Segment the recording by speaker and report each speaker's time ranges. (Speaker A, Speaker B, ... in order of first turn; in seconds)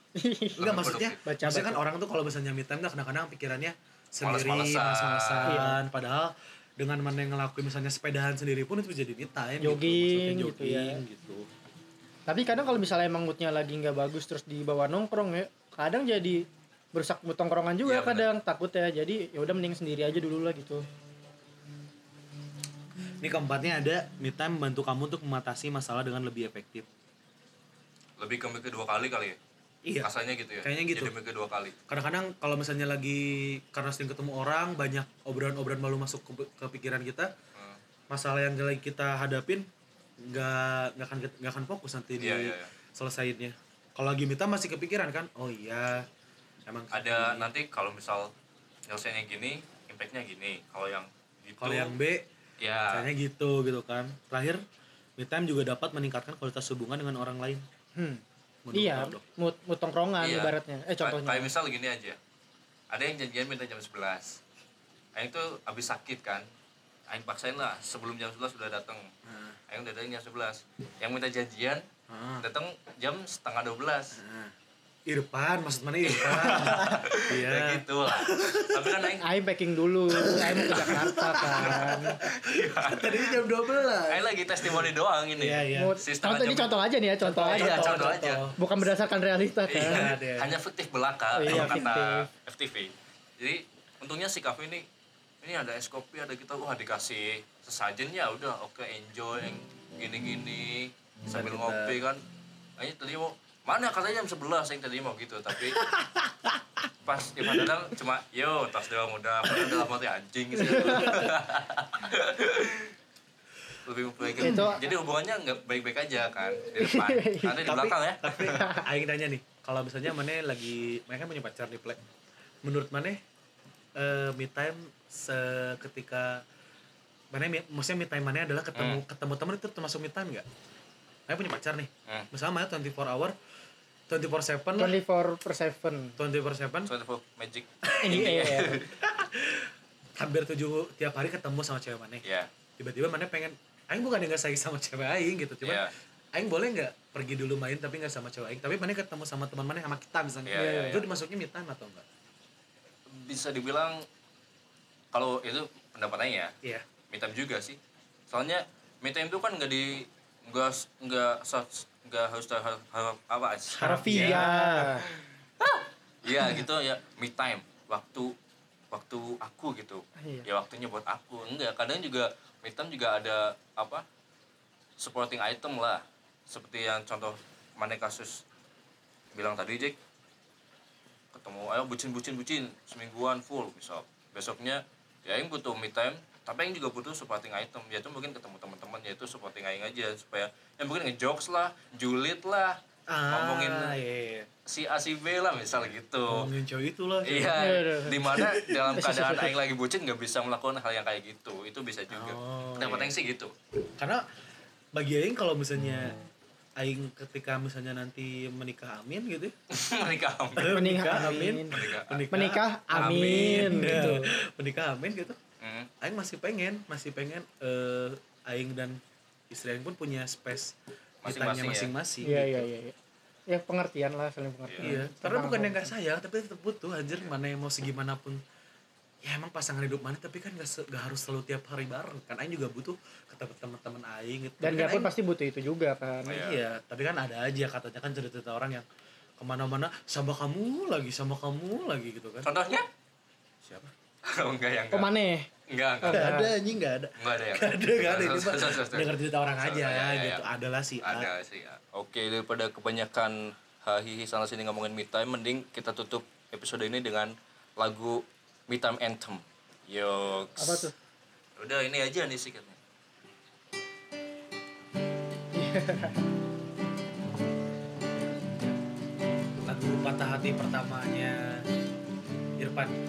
Speaker A: 0.2-1.8, 5.5-5.8, 9.6-11.0, 12.3-20.8, 58.0-58.2, 58.7-61.5, 79.2-82.2, 85.7-88.0, 88.6-90.1, 91.3-92.3, 110.6-111.2, 114.4-114.8, 116.7-117.6, 118.5-118.8, 134.8-136.2, 138.0-138.8, 150.5-151.0, 163.8-165.1, 170.2-170.5, 197.5-198.2, 198.9-199.5, 210.6-211.7, 212.3-214.3, 222.2-222.9, 223.5-225.9, 234.6-236.4, 244.9-245.5, 246.0-246.5, 260.6-260.9, 265.5-266.2
Speaker B: 0.6-1.2, 4.2-5.6, 17.8-18.3, 28.2-29.4, 30.0-31.8, 42.2-42.7, 46.9-48.3, 48.9-51.9, 52.6-53.1, 60.2-62.2, 62.9-64.4, 65.2-66.5, 67.1-69.1, 69.7-71.8, 72.4-74.2, 76.0-79.2, 81.6-83.4, 84.1-86.7, 87.5-88.5, 89.7-94.8, 95.4-102.2, 102.8-105.8, 107.0-112.9, 113.8-118.7, 128.7-129.0, 136.9-138.9, 142.2-142.5, 145.6-145.9, 150.5-151.1, 153.1-154.0, 155.1-156.5, 157.1-157.8, 158.3-164.4, 165.6-168.3, 168.9-174.0, 175.0-178.4, 179.3-180.0, 181.3-194.0, 194.7-196.5, 197.2-203.5, 209.7-210.7, 211.7-212.2, 213.1-213.7, 215.6-215.9, 221.2-221.9, 224.7-225.0, 236.3-236.6, 242.4-242.9, 243.7-245.1, 245.7-246.3, 247.2-250.4, 251.0-260.9, 261.6-262.8
Speaker C: 0.6-11.5, 23.2-26.9, 29.8-30.1, 30.6-31.1, 31.9-37.3, 38.1-39.7, 40.2-46.1, 46.6-47.5, 51.6-52.3, 52.9-54.6, 55.2-57.6, 58.6-59.2, 69.2-69.6, 72.1-72.5, 74.1-74.5, 75.1-79.1, 80.1-85.9, 87.2-88.6, 89.7-90.5, 91.5-91.9, 101.3-102.0, 105.7-106.6, 107.4-107.7, 109.5-109.8, 117.6-122.0, 122.6-123.2, 124.0-126.4, 127.3-130.4, 131.3-133.3, 134.1-135.0, 136.2-136.9, 137.8-142.2, 142.8-152.0, 163.7-165.1, 193.1-194.5, 196.3-197.6, 198.2-198.8, 202.1-203.1, 204.0-204.2, 204.9-206.2, 206.8-209.6, 210.6-215.4, 216.0-222.7, 224.8-228.4, 229.2-235.1, 236.3-238.8, 239.4-242.5, 246.0-251.3, 269.6-271.6, 272.6-273.0